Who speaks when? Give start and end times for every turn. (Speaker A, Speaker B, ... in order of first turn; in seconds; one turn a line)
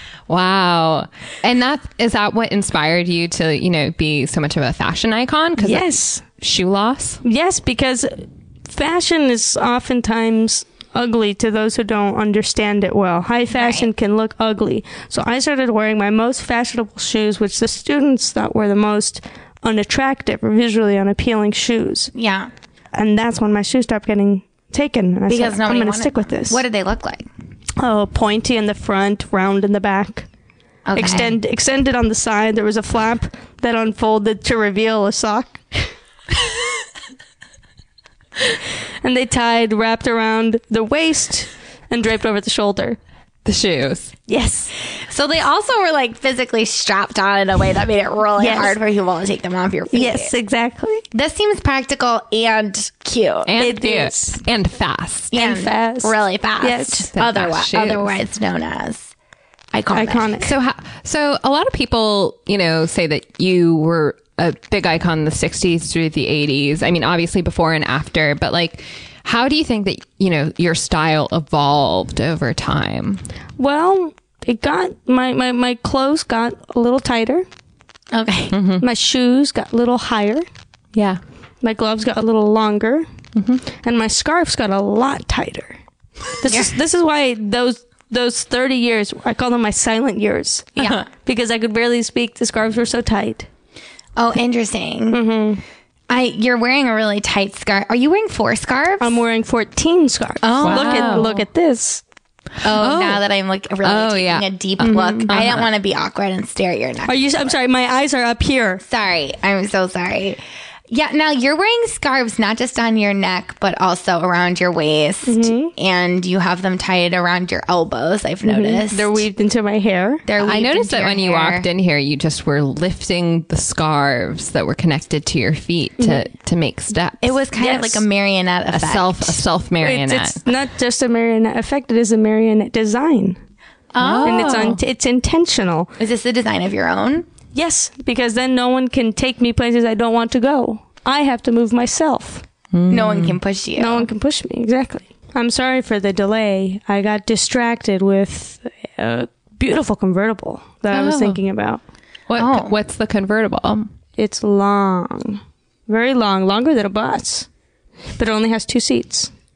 Speaker A: 0.3-7.2
Speaker B: 5.6-6.2
Speaker B: 7.2-22.1
Speaker C: 13.6-13.9
Speaker C: 22.1-22.5
Speaker B: 22.9-26.6
Speaker C: 25.3-27.3
Speaker B: 27.8-30.3
Speaker C: 30.9-31.4
Speaker B: 31.0-35.9
Speaker B: 39.0-43.0
Speaker A: 43.5-44.1
Speaker B: 44.3-44.7
Speaker C: 45.0-50.3
Speaker B: 48.4-48.8
Speaker B: 49.9-51.0
Speaker C: 51.1-53.5
Speaker A: 53.5-55.3
Speaker B: 53.6-54.3
Speaker C: 55.3-59.1
Speaker B: 55.3-57.1
Speaker A: 57.1-58.1
Speaker C: 59.7-60.4
Speaker B: 59.9-60.5
Speaker A: 60.4-73.2
Speaker B: 73.6-77.5
Speaker C: 78.1-78.6
Speaker A: 78.5-78.9
Speaker B: 78.8-80.5
Speaker A: 81.0-81.2
Speaker B: 81.6-83.1
Speaker A: 83.3-83.6
Speaker B: 83.8-85.8
Speaker B: 86.4-93.5
Speaker C: 86.5-86.7
Speaker C: 90.8-91.1
Speaker C: 94.2-95.2
Speaker B: 95.1-95.6
Speaker C: 96.1-99.2
Speaker B: 99.0-102.0
Speaker C: 100.4-101.3
Speaker A: 100.6-101.4
Speaker C: 102.6-107.5
Speaker A: 102.7-103.2
Speaker A: 103.8-105.7
Speaker B: 104.8-105.2
Speaker B: 107.1-108.8
Speaker C: 108.8-119.3
Speaker B: 115.3-115.7
Speaker B: 118.5-120.2
Speaker C: 120.2-121.7
Speaker A: 120.4-127.4
Speaker B: 126.0-126.2
Speaker C: 127.2-129.4
Speaker B: 127.6-128.0
Speaker A: 128.7-130.4
Speaker B: 129.8-133.4
Speaker C: 133.9-134.7
Speaker A: 134.0-134.8
Speaker B: 134.2-135.9
Speaker C: 136.0-137.3
Speaker B: 137.5-142.4
Speaker A: 142.7-143.4
Speaker C: 142.9-144.1
Speaker B: 143.8-151.8
Speaker A: 150.9-151.4
Speaker A: 152.3-153.9
Speaker C: 152.4-152.8
Speaker B: 154.2-157.5
Speaker B: 158.2-159.3